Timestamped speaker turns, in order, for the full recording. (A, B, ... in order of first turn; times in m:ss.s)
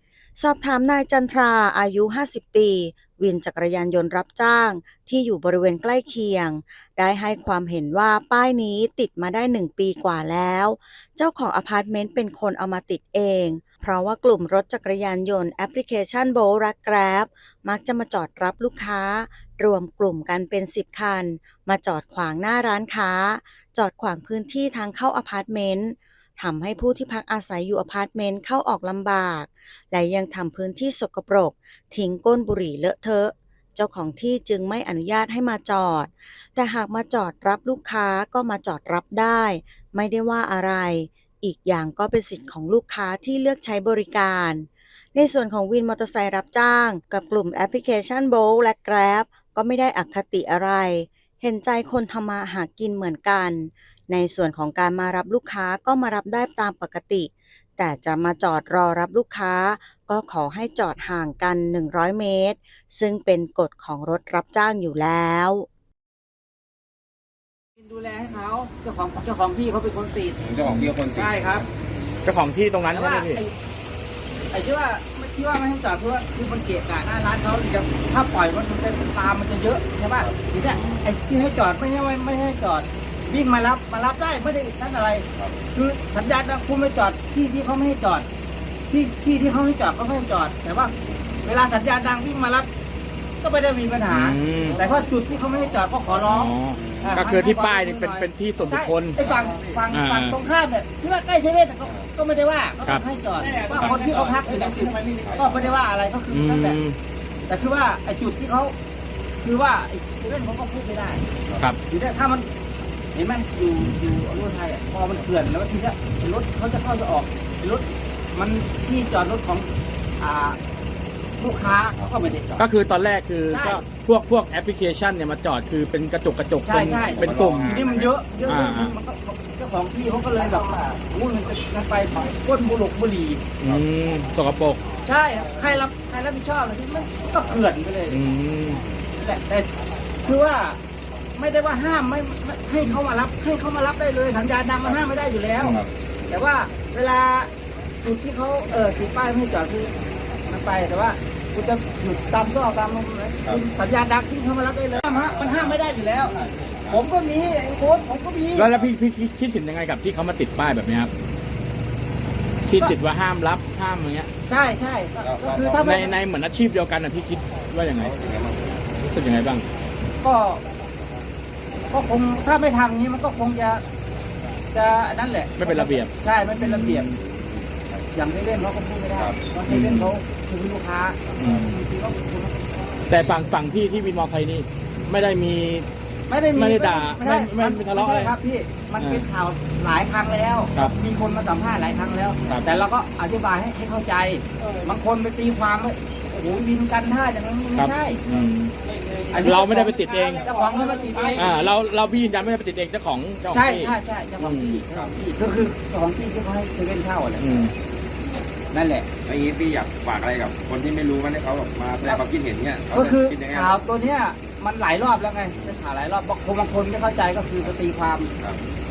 0:00.4-1:05.7 A
1:07.8-1:10.4 B
1:10.4-1:12.1 C
1:10.6-1:10.9 D
1:11.1-1:11.6 B
1:12.2-1:13.4 D
1:12.9-1:13.5 B
1:14.5-1:28.3 B
1:20.7-1:21.1 D
1:28.9-1:30.9 B
1:31.4-1:32.7 B
1:33.4-1:46.8 B
1:34.1-1:34.8 D
1:34.6-1:37.2 C
1:36.3-1:39.2 D
1:39.2-1:39.8 C
1:39.9-1:40.4 D
1:41.8-1:42.1 C
1:43.3-1:45.8 C
1:46.3-1:47.0 D
1:47.5-1:48.8 B
1:49.4-1:51.3 B
1:51.9-1:52.5 B
1:53.2-2:00.6 B
2:01.4-2:02.6 B
2:02.6-2:07.8 D
2:03.5-2:03.8 B
2:06.7-2:13.5 B
2:07.0-2:08.1 C
2:08.5-2:09.0 D
2:13.6-2:14.9 D
2:15.0-2:18.2 B
2:18.1-2:18.8 D
2:19.2-2:19.7 B
2:20.2-2:20.8 B
2:21.4-2:27.5 B
2:25.6-2:25.8 D
2:25.6-2:25.9 C
2:28.0-2:36.4 B
2:35.0-2:37.0 C
2:36.9-2:38.7 B
2:38.6-2:41.1 D
2:42.7-2:44.3 D
2:44.5-2:46.1 B
2:45.2-2:46.0 C
2:45.8-2:48.1 D
2:48.0-2:48.9 C
2:49.0-2:49.7 D
2:50.2-2:50.6 B
2:51.9-2:53.8 B
2:54.7-2:57.1 B
2:55.6-2:57.1 D
2:57.1-2:58.1 C
2:58.2-3:03.0 B
2:59.2-2:59.5 C
2:59.7-3:00.1 D
3:01.3-3:01.6 C
3:01.4-3:01.8 D
3:03.1-3:05.9 D
3:06.3-3:18.2 B
3:06.6-3:08.4 D
3:09.0-3:09.3 D
3:12.5-3:12.7 D
3:17.8-3:18.8 D
3:19.3-3:21.6 B
3:19.4-3:20.6 D
3:21.4-3:24.8 D
3:23.5-3:27.5 B
3:24.9-3:25.2 C
3:27.4-3:27.8 D
3:28.7-3:29.1 B
3:29.2-3:33.9 C
3:32.9-3:38.3 B